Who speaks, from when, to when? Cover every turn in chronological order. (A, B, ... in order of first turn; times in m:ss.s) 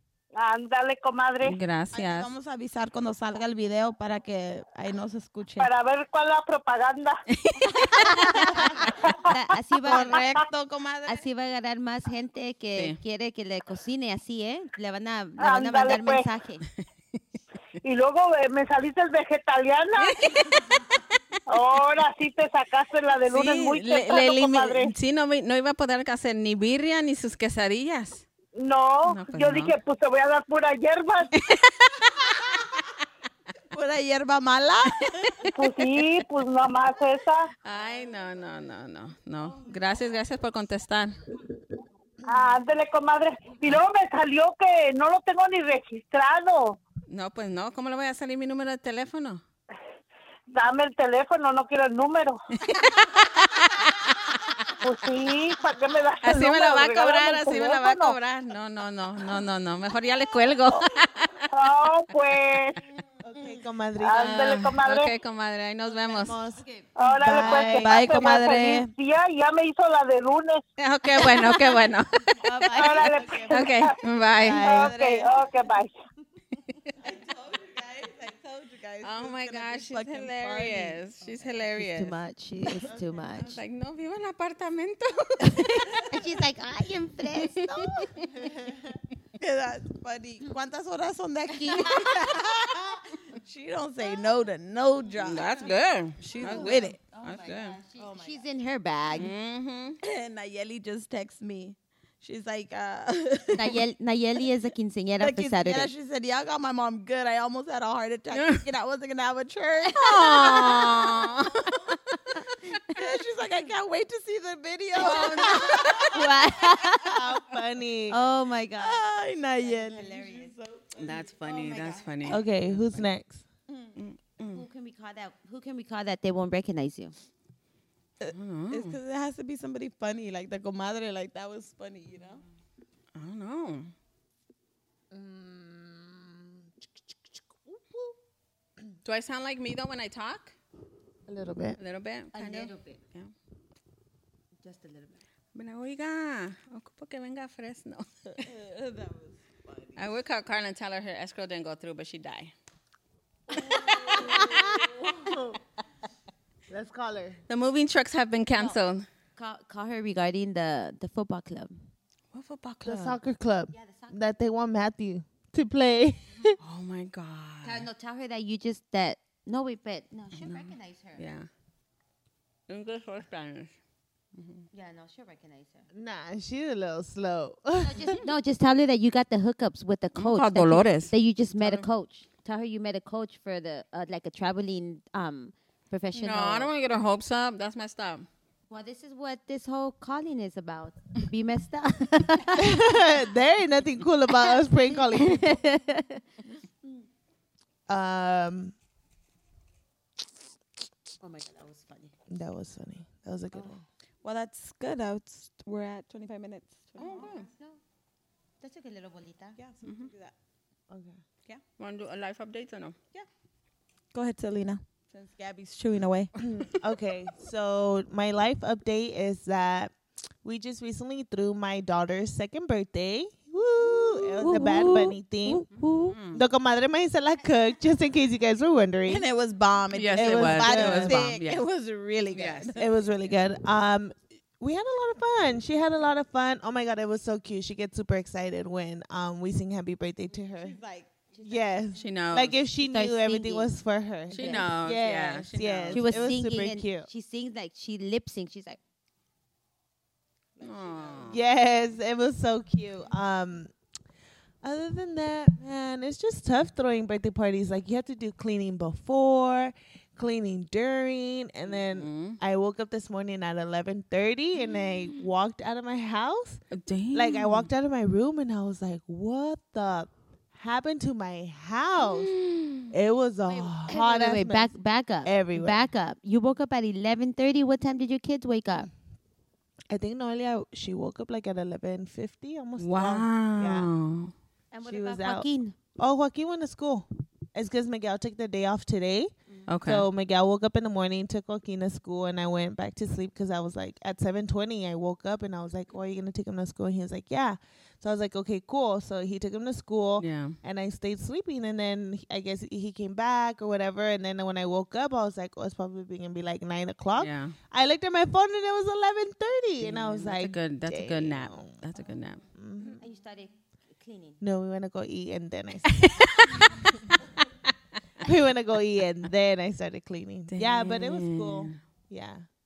0:00.4-0:01.4 A
0:01.4-0:02.3 B
0:01.9-0:05.7 C
0:05.6-0:07.1 A
0:07.3-0:08.9 B
0:08.0-0:08.7 D
0:08.1-0:09.0 C
0:09.2-0:10.2 D
0:09.8-0:11.2 C
0:11.1-0:16.6 D
0:15.4-0:16.2 A
0:17.9-0:20.1 A
0:20.0-0:20.8 B
0:21.5-0:24.8 A
0:23.3-0:28.2 B
0:28.7-0:31.3 A
0:29.0-0:29.7 B
0:31.3-0:32.5 B
0:33.7-0:35.4 C
0:35.6-0:37.3 A
0:37.6-0:41.1 B
0:42.3-0:46.5 A
0:47.1-0:49.4 B
0:50.6-0:52.3 A
0:52.6-0:54.4 B
0:54.8-0:58.0 A
0:56.2-1:01.4 B
1:01.7-1:02.5 A
1:03.2-1:04.4 E
1:04.0-1:05.0 A
1:04.2-1:06.4 B
1:06.0-1:06.6 E
1:06.5-1:06.9 D
1:07.0-1:10.5 A
1:07.2-1:08.0 E
1:07.4-1:08.9 C
1:10.8-1:12.2 B
1:12.4-1:13.1 C
1:12.4-1:13.2 D
1:12.8-1:13.2 A
1:13.0-1:13.7 E
1:13.5-1:14.8 B
1:14.4-1:15.3 C
1:14.6-1:15.9 A
1:17.0-1:21.0 C
1:19.0-1:22.1 B
1:21.8-1:23.6 D
1:23.3-1:26.1 B
1:26.0-1:28.3 D
1:27.4-1:27.7 B
1:29.4-1:35.8 C
1:31.5-1:32.5 D
1:35.2-1:37.8 B
1:35.4-1:35.6 D
1:36.2-1:39.3 D
1:36.3-1:37.0 C
1:38.0-1:38.4 C
1:39.1-1:40.0 B
1:40.0-1:43.8 C
1:43.5-1:45.9 D
1:45.2-1:51.9 C
1:48.3-1:48.6 B
1:50.0-1:51.7 B
1:52.8-1:57.2 C
1:55.0-1:56.1 B
1:55.0-1:57.2 D
1:57.0-1:58.2 E
1:58.1-2:00.5 D
1:58.8-2:02.1 C
2:01.0-2:03.1 B
2:02.3-2:03.4 E
2:03.7-2:03.9 C
2:04.0-2:04.6 B
2:04.5-2:07.1 D
2:08.2-2:12.4 C
2:08.3-2:09.0 B
2:13.1-2:13.9 B
2:15.1-2:16.2 D
2:19.0-2:20.6 B
2:21.3-2:21.8 E
2:21.8-2:23.3 B
2:22.3-2:23.0 D
2:24.6-2:25.2 D
2:25.5-2:28.4 B
2:28.4-2:30.2 C
2:30.0-2:32.5 B
2:33.5-2:35.4 C
2:34.0-2:34.9 E
2:34.1-2:34.4 D
2:36.7-2:37.4 E
2:37.5-2:39.0 B
2:39.4-2:41.8 D
2:42.3-2:43.2 B
2:42.8-2:46.5 E
2:43.7-2:44.2 D
2:46.6-2:47.9 B
2:47.6-2:51.2 D
2:50.4-2:51.5 B
2:52.7-2:53.7 B
2:54.3-2:54.7 B
2:54.7-2:55.9 D
2:55.9-2:58.1 E
2:57.8-3:06.7 D
3:00.1-3:01.8 B
3:06.1-3:08.3 B
3:08.7-3:12.8 D
3:12.6-3:15.6 E
3:14.5-3:16.2 D
3:17.9-3:18.7 E
3:21.2-3:22.1 D
3:22.3-3:23.8 E
3:24.2-3:27.3 C
3:27.0-3:27.8 D
3:27.0-3:27.5 B
3:28.6-3:29.6 D
3:29.6-3:30.3 C
3:29.8-3:30.1 B
3:30.9-3:31.2 E
3:31.8-3:33.0 B
3:34.1-3:36.3 C
3:36.5-3:45.7 E
3:43.8-3:46.2 C
3:46.0-3:46.4 B
3:46.3-3:49.2 E
3:49.1-3:52.9 C
3:49.9-3:51.6 B
3:50.1-3:51.3 E
3:52.3-3:52.8 B
3:52.8-4:00.8 E
4:00.3-4:01.1 C
4:01.3-4:01.8 D
4:01.4-4:07.1 E
4:02.0-4:02.6 B
4:02.8-4:03.7 D
4:04.3-4:06.1 B
4:04.4-4:04.7 D
4:05.9-4:08.8 D
4:10.6-4:11.4 C
4:10.6-4:11.4 B
4:11.3-4:13.7 E
4:14.6-4:26.6 E
4:21.9-4:22.4 B
4:26.7-4:27.7 B
4:27.1-4:32.3 E
4:32.0-4:32.8 B
4:32.9-4:34.7 E
4:33.9-4:38.9 D
4:35.2-4:35.8 E
4:39.9-4:43.9 E
4:42.8-4:44.3 B
4:44.7-4:45.8 D
4:44.8-4:49.3 E
4:49.7-4:50.0 B
4:49.8-5:11.8 E
5:00.2-5:00.6 B
5:07.2-5:07.6 B
5:09.8-5:12.4 B
5:12.5-5:13.0 E
5:13.0-5:14.4 D
5:14.4-5:16.0 E
5:15.9-5:16.7 B
5:18.2-5:22.4 E
5:20.5-5:21.8 B